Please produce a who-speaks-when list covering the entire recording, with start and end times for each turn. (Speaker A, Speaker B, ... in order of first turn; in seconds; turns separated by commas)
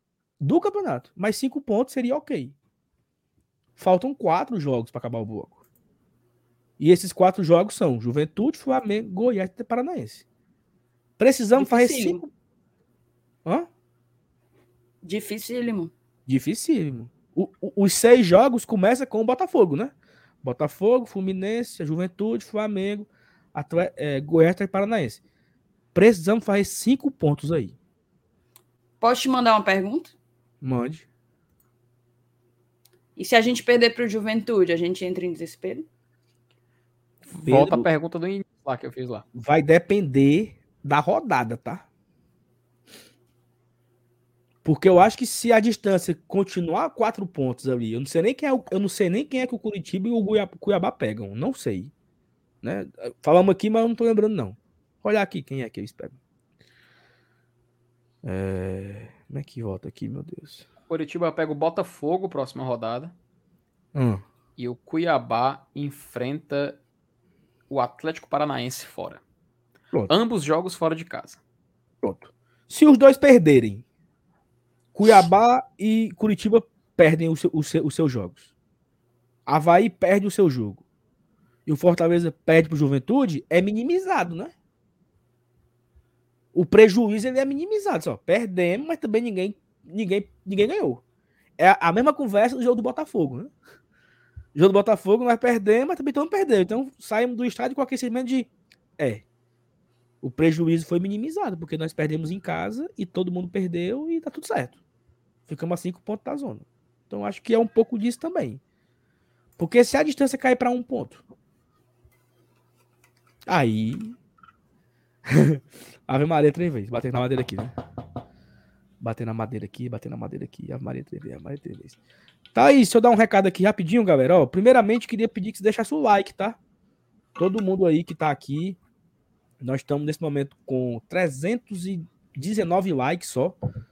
Speaker A: 0.4-2.5, Speaker A: 3.8-5.6, Speaker A: 6.8-10.2, Speaker A: 11.2-12.2, Speaker B: 11.5-12.2, Speaker B: 15.0-15.9, Speaker A: 16.3-25.2, Speaker A: 25.9-27.7, Speaker B: 29.0-30.1, Speaker A: 30.6-31.1, Speaker B: 33.1-35.9, Speaker C: 37.3-39.2, Speaker A: 37.4-37.9, Speaker A: 39.3-41.9, Speaker A: 44.6-51.9, Speaker A: 52.6-56.2, Speaker A: 58.2-60.6, Speaker C: 60.9-63.1, Speaker A: 63.9-64.2, Speaker C: 64.6-66.8, Speaker C: 67.7-69.2, Speaker C: 70.1-71.4, Speaker A: 72.0-73.8, Speaker A: 74.9-78.4, Speaker A: 79.5-80.8, Speaker A: 81.7-84.5, Speaker A: 86.5-91.0, Speaker A: 91.6-93.5, Speaker A: 94.5-99.2, Speaker A: 100.2-104.8, Speaker A: 105.5-108.6, Speaker A: 109.6-111.2, Speaker A: 113.5-114.2, Speaker A: 115.3-117.7, Speaker A: 119.0-122.0, Speaker A: 122.5-126.6, Speaker A: 127.4-128.8, Speaker A: 129.6-133.6